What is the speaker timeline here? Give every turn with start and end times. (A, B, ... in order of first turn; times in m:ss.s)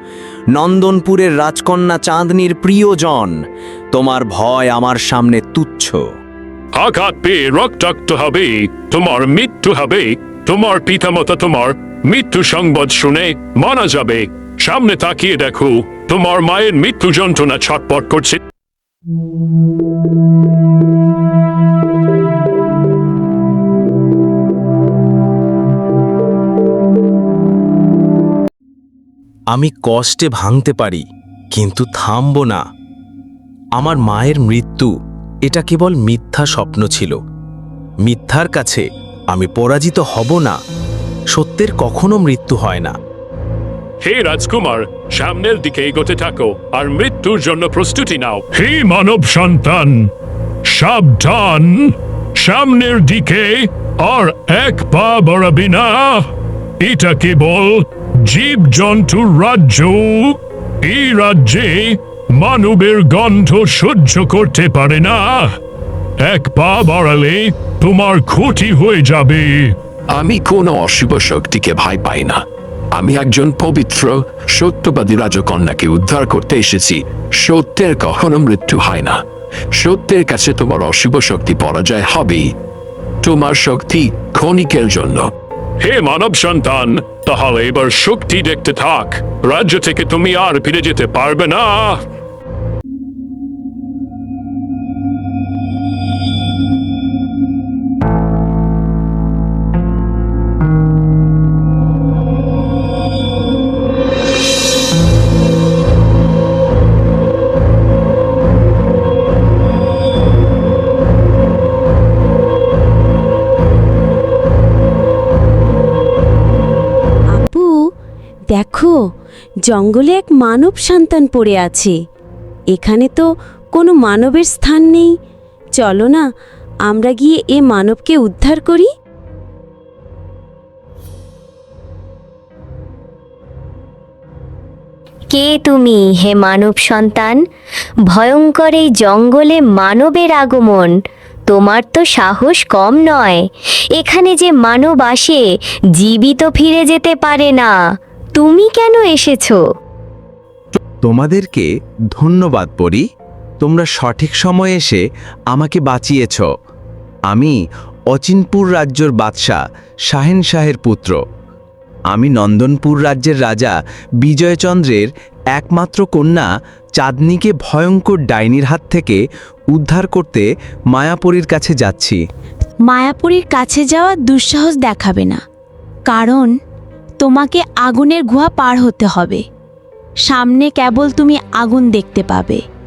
0:00.5-0:03.4 A
0:03.9-0:06.0 A
0:06.7-0:18.4 B
0:29.5-0:32.6 A
0:33.8-0:34.9 A
0:35.4-0:37.2 A
0:38.0-0:40.6 A
0:41.3-0:43.0 A
0:44.0-0:50.0 B
0:50.7-0:56.3 B
0:56.8-1:05.5 B
1:06.3-1:09.7 B
1:10.1-1:12.4 C
1:12.9-1:19.2 C
1:19.8-1:22.5 C
1:23.2-1:25.3 C
1:25.8-1:32.0 B
1:57.3-1:57.7 D
1:58.5-1:58.9 D
1:59.7-2:01.8 D
2:02.8-2:03.2 D
2:03.8-2:05.0 D
2:05.8-2:06.2 D
2:06.9-2:08.8 D
2:15.3-2:17.4 E
2:18.1-2:20.9 E
2:21.5-2:25.4 E
2:26.0-2:27.7 E
2:28.4-2:29.6 E
2:31.0-2:33.0 A
2:33.6-2:36.4 A
2:37.3-2:37.5 A
2:38.1-2:41.2 A
2:42.1-2:49.2 A
2:49.7-2:52.2 A
2:52.9-2:55.4 D
2:56.1-2:56.5 D
2:57.2-2:59.4 D
3:00.3-3:02.6 D